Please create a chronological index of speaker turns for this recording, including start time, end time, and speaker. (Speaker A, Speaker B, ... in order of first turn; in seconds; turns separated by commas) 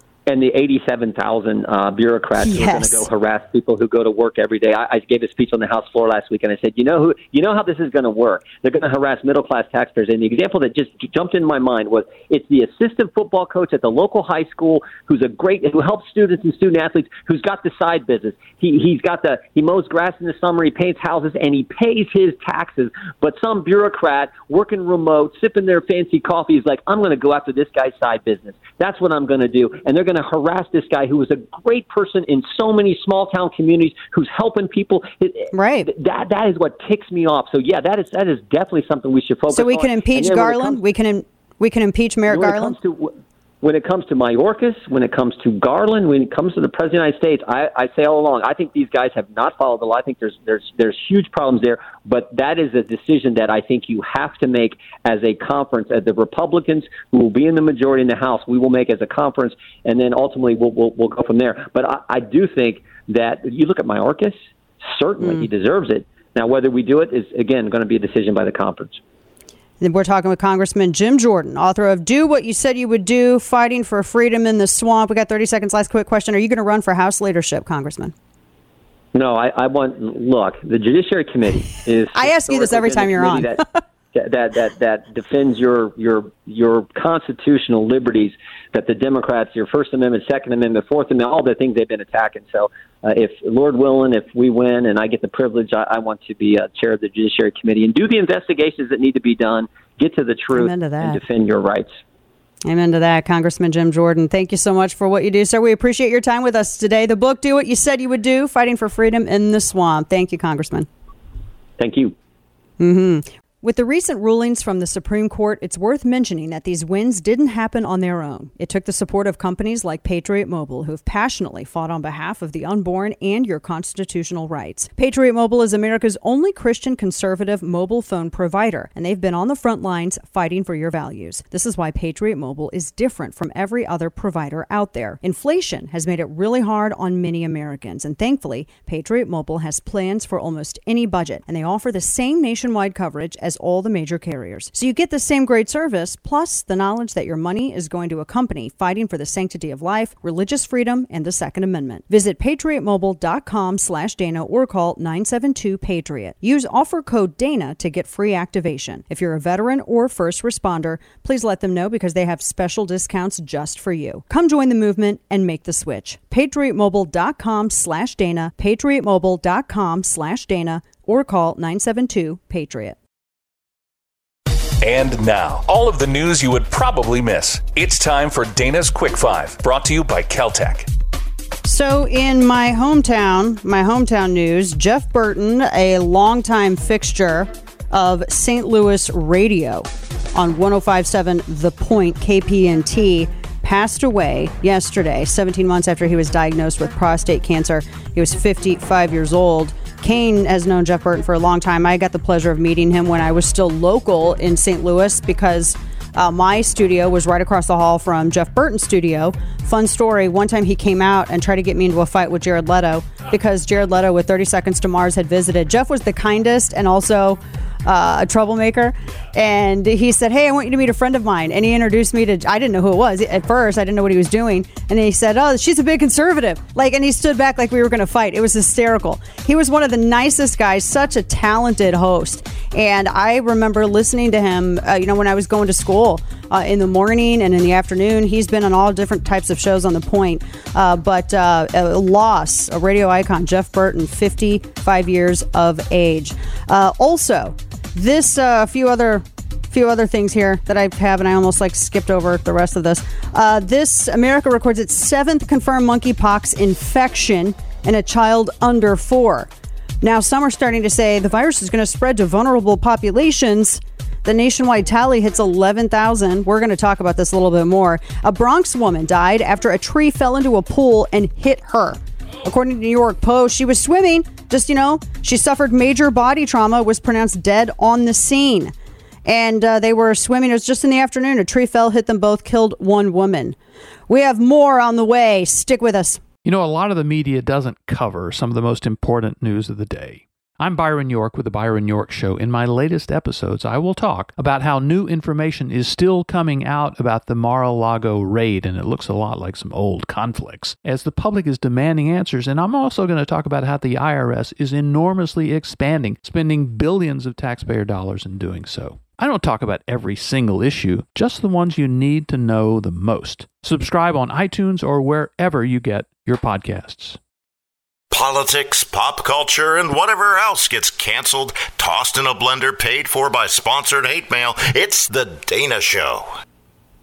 Speaker A: 0.3-40.8, Speaker B: 2.4-3.1, Speaker B: 35.5-35.9, Speaker B: 39.5-42.8, Speaker A: 42.3-69.0, Speaker B: 65.2-65.5, Speaker B: 69.8-78.1, Speaker A: 79.1-101.9, Speaker B: 82.1-83.6, Speaker B: 100.5-101.2, Speaker B: 102.6-110.9, Speaker A: 111.8-112.1, Speaker B: 112.8-173.0, Speaker C: 174.8-180.9, Speaker B: 181.6-259.5, Speaker B: 260.0-278.7, Speaker B: 279.2-283.6, Speaker B: 284.1-286.2, Speaker D: 286.4-317.2, Speaker E: 318.1-326.3